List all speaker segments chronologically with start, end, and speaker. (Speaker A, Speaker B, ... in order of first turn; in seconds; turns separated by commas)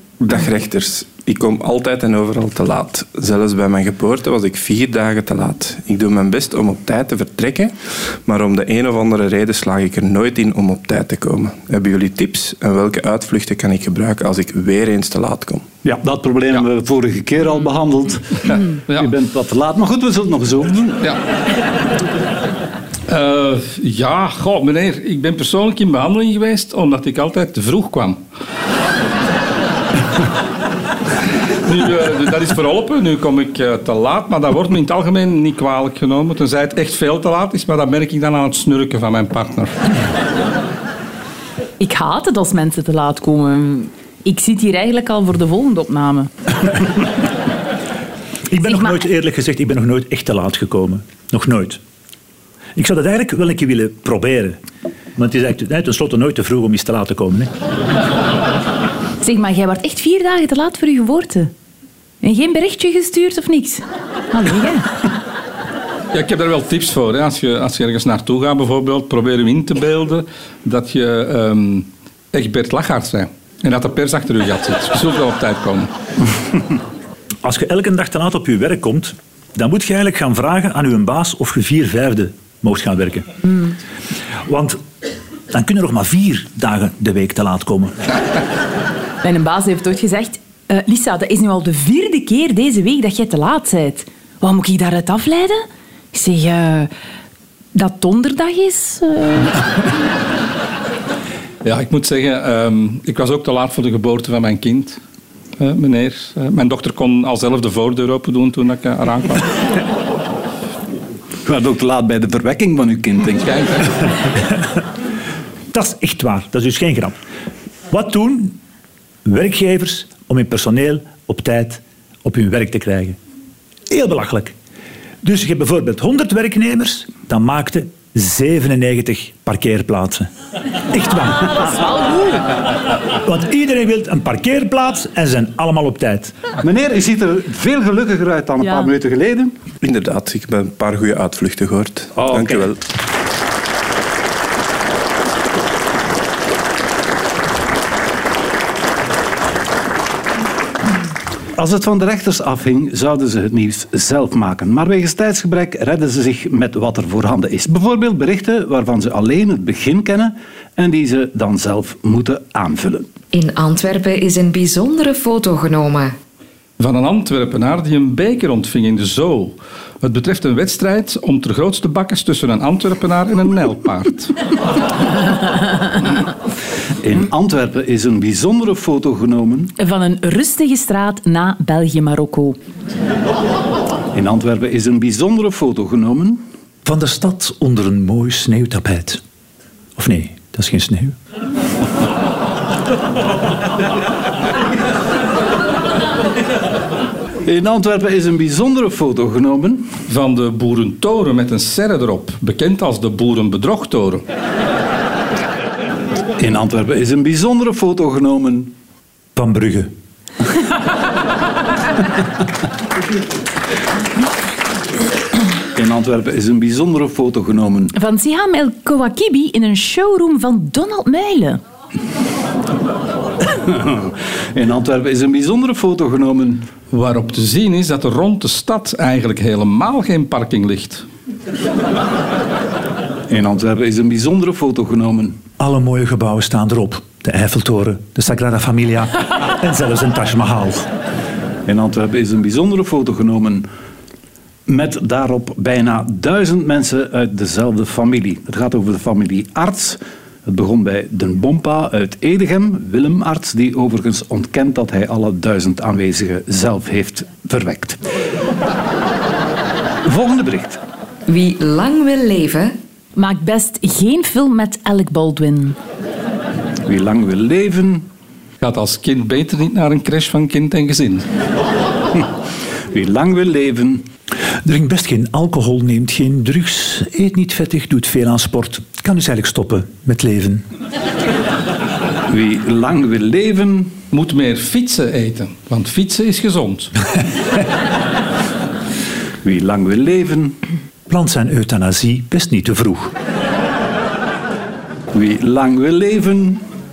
Speaker A: 0.2-15.7, Speaker B: 15.8-21.0, Speaker C: 23.1-28.2, Speaker C: 31.6-39.7, Speaker D: 41.8-46.3, Speaker E: 48.5-51.8, Speaker D: 48.6-49.0, Speaker E: 52.8-54.6, Speaker E: 55.1-57.5, Speaker D: 59.2-61.5, Speaker D: 62.2-65.0, Speaker C: 66.1-75.9, Speaker E: 77.4-83.3, Speaker E: 84.4-84.8, Speaker E: 85.5-88.0, Speaker D: 89.2-96.9, Speaker D: 97.7-99.6, Speaker C: 101.6-105.0, Speaker C: 105.6-109.5, Speaker B: 111.4-113.9, Speaker C: 113.5-113.8, Speaker E: 115.7-117.2, Speaker E: 117.9-118.6, Speaker E: 119.2-123.2, Speaker E: 123.9-124.5, Speaker E: 125.2-130.3, Speaker E: 130.9-131.7, Speaker D: 131.7-132.4, Speaker E: 133.1-136.4, Speaker B: 136.6-139.6, Speaker A: 139.8-142.8, Speaker B: 142.1-142.7, Speaker B: 151.6-163.1, Speaker F: 163.3-166.2, Speaker C: 166.8-174.3, Speaker B: 177.0-179.7, Speaker D: 179.8-182.6, Speaker B: 184.1-186.4, Speaker E: 186.8-189.2, Speaker E: 189.9-191.2, Speaker B: 197.4-199.8, Speaker C: 200.1-204.2, Speaker B: 206.4-208.7, Speaker E: 209.3-209.9, Speaker B: 215.7-217.9, Speaker D: 217.9-221.6, Speaker B: 223.5-226.7, Speaker C: 226.9-231.1, Speaker B: 233.3-235.4, Speaker E: 235.6-240.9, Speaker B: 241.7-243.7, Speaker B: 244.7-258.0, Speaker B: 260.0-260.8, Speaker F: 261.3-262.8, Speaker D: 263.1-265.8, Speaker B: 266.9-268.1, Speaker C: 268.6-271.2, Speaker B: 272.9-274.1, Speaker E: 274.6-280.6, Speaker B: 282.3-283.9, Speaker C: 284.1-286.9, Speaker B: 289.4-290.6, Speaker E: 291.1-293.1, Speaker B: 295.1-296.6